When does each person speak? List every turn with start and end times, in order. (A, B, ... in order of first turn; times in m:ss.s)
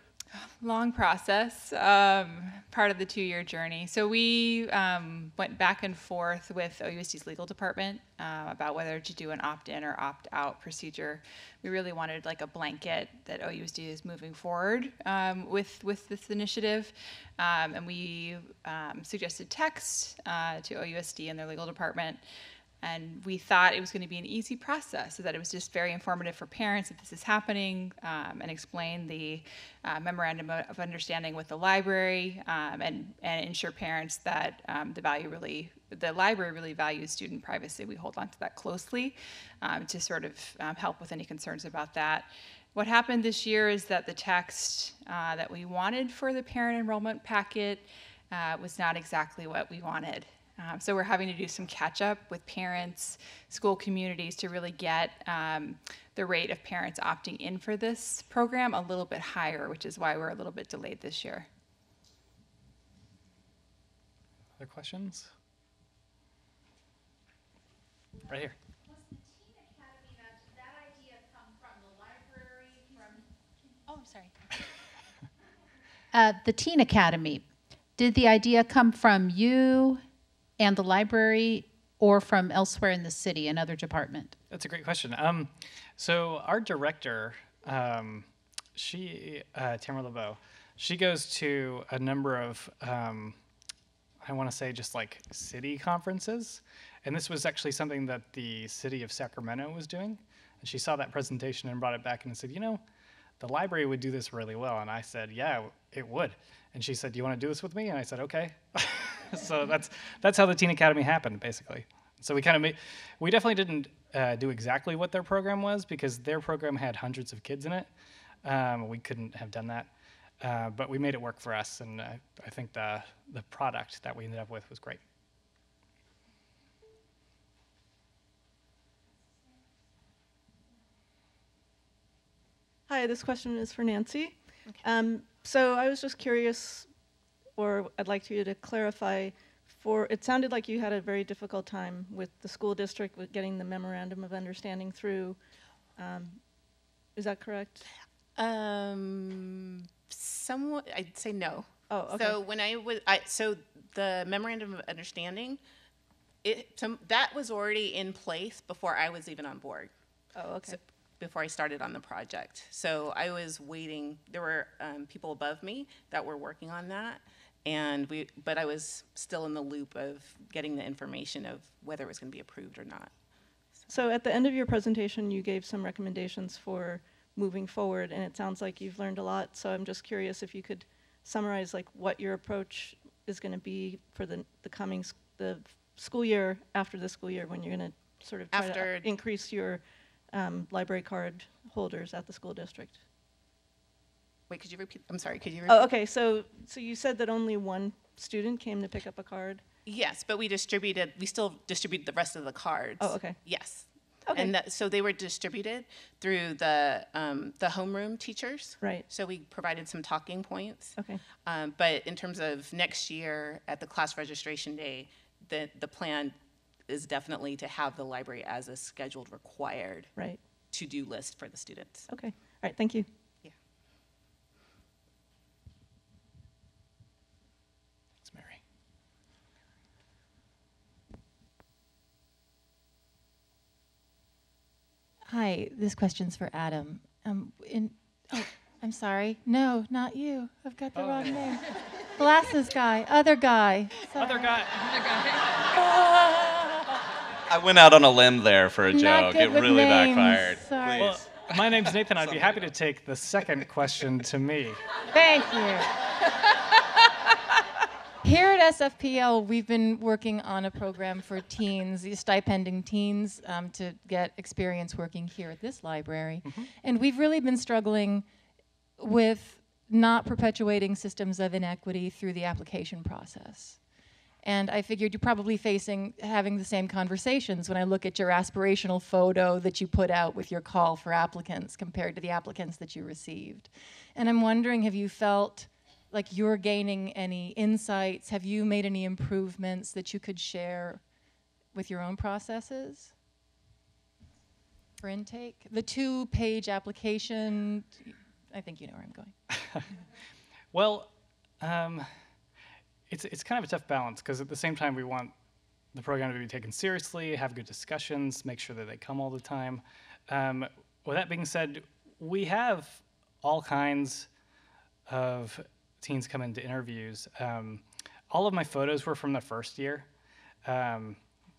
0:00.4-0:22.2 A
0:22.8-1:01.5 A
1:04.6-1:05.3 B
1:08.3-1:08.6 B
1:13.9-1:14.3 A
1:16.1-1:17.4 C
1:18.0-1:20.0 C
1:20.6-1:24.3 C
1:24.5-1:33.4 B
1:34.2-1:42.8 B
1:43.4-1:57.9 B
1:58.4-2:05.0 B
2:12.9-2:16.9 D
2:17.6-2:25.4 D
2:26.0-2:26.4 D
2:27.1-2:27.9 D
2:28.4-2:35.6 E
2:31.9-2:32.4 D
2:36.4-2:39.9 E
2:40.4-2:40.8 D
2:40.7-2:53.1 E
2:53.9-3:13.0 D
3:08.5-3:09.1 E
3:14.5-3:15.8 E
3:15.7-3:19.6 D
3:19.8-3:36.4 E
3:23.0-3:23.4 D
3:24.3-3:24.6 D
3:31.0-3:31.2 D
3:36.9-3:40.1 E
3:40.7-3:42.1 E
3:42.1-3:43.1 D
3:48.3-3:48.6 B
3:55.2-4:04.5 F
4:00.9-4:01.4 B
4:04.2-4:04.8 B
4:05.7-4:06.8 F
4:07.5-4:12.7 G
4:08.9-4:11.3 F
4:11.0-4:14.8 B
4:15.1-4:15.9 F
4:18.2-4:28.3 F
4:29.0-4:33.9 F
4:34.4-4:51.0 F
4:51.7-4:53.1 F
4:55.0-4:59.3 F
5:00.7-5:02.1 B
5:03.1-5:05.3 B
5:05.9-5:14.3 B
5:15.1-5:20.1 B
5:20.6-5:21.2 B